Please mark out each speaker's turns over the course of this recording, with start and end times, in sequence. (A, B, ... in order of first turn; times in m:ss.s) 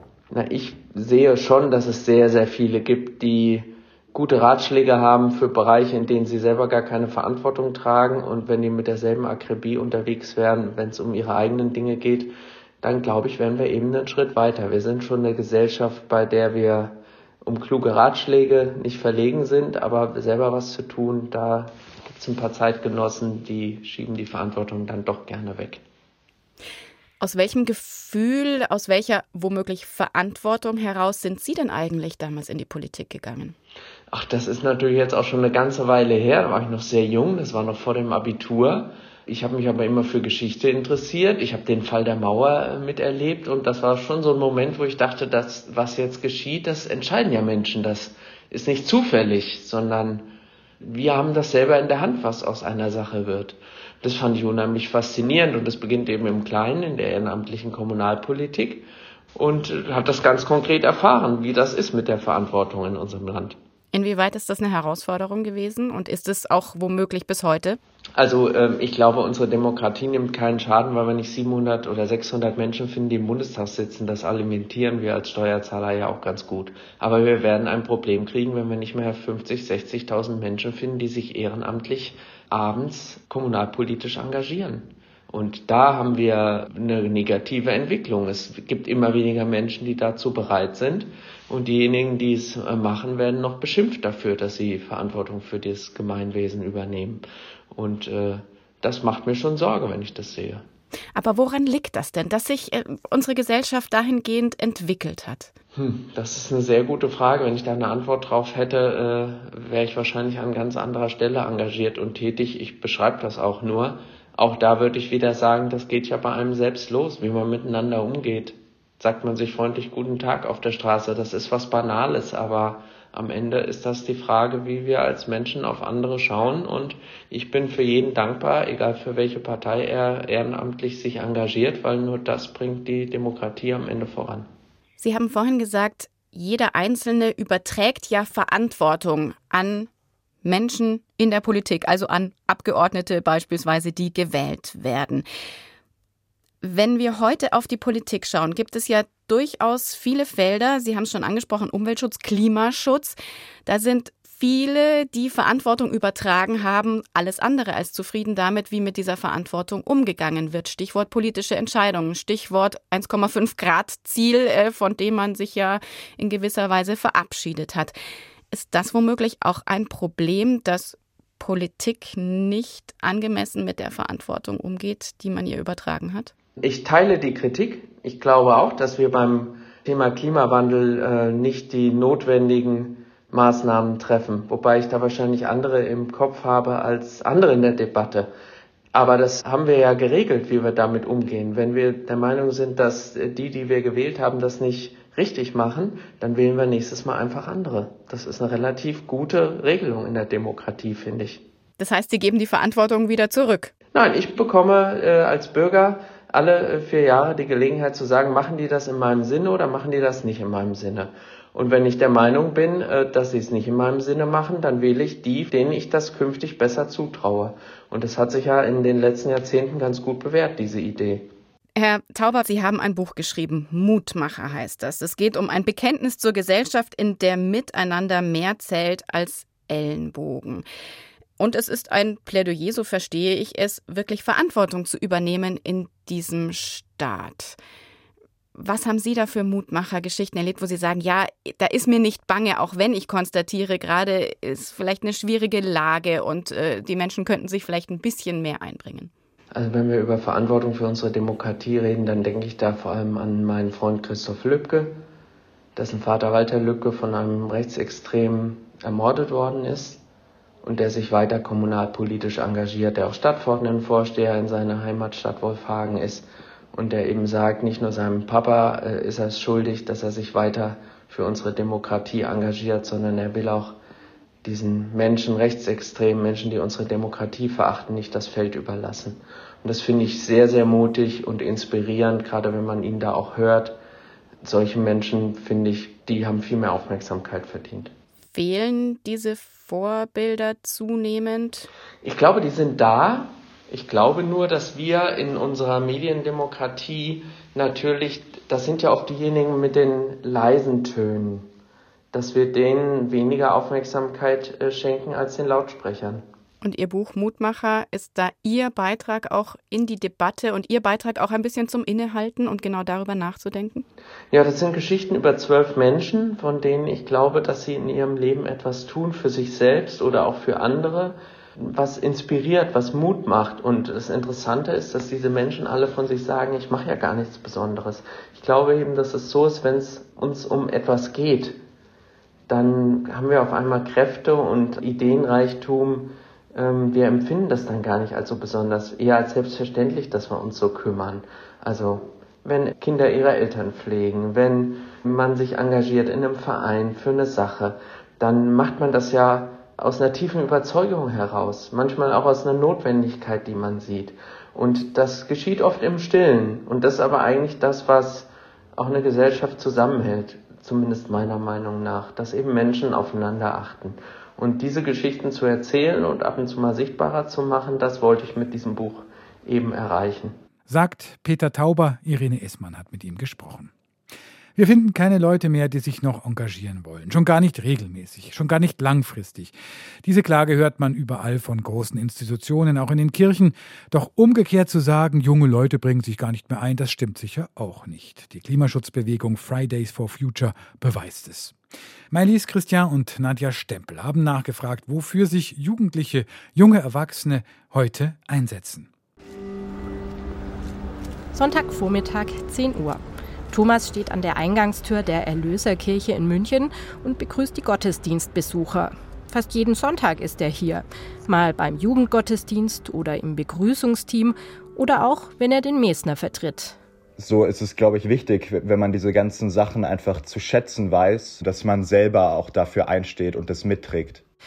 0:00.3-0:25.8 A
0:27.2-0:33.6 B
0:34.1-0:50.3 A
0:50.8-1:03.6 A
1:03.9-1:07.8 B
1:08.2-1:40.6 A
1:41.1-1:45.5 B
1:45.8-2:14.5 A
2:15.0-2:19.9 B
2:20.4-2:25.2 B
2:26.6-2:47.9 B
2:48.5-2:56.3 B
2:56.6-3:08.3 A
3:08.9-3:21.4 A
3:21.8-3:23.7 B
3:23.9-3:41.3 A
3:41.8-3:50.6 B
3:51.4-3:57.6 B
3:58.5-4:09.1 B
4:09.5-4:15.0 A
4:15.8-4:20.0 A
4:20.6-4:33.8 A
4:34.4-4:43.8 A
4:44.4-4:47.9 A
4:48.3-4:51.7 B
4:52.0-5:01.5 A
5:02.1-5:06.2 A
5:06.6-5:13.8 B
5:14.3-5:31.6 A
5:32.5-6:10.4 A
6:10.7-6:13.7 C
6:14.6-6:31.6 C
6:32.1-6:38.9 C
6:41.3-6:56.8 D
6:57.2-7:04.2 E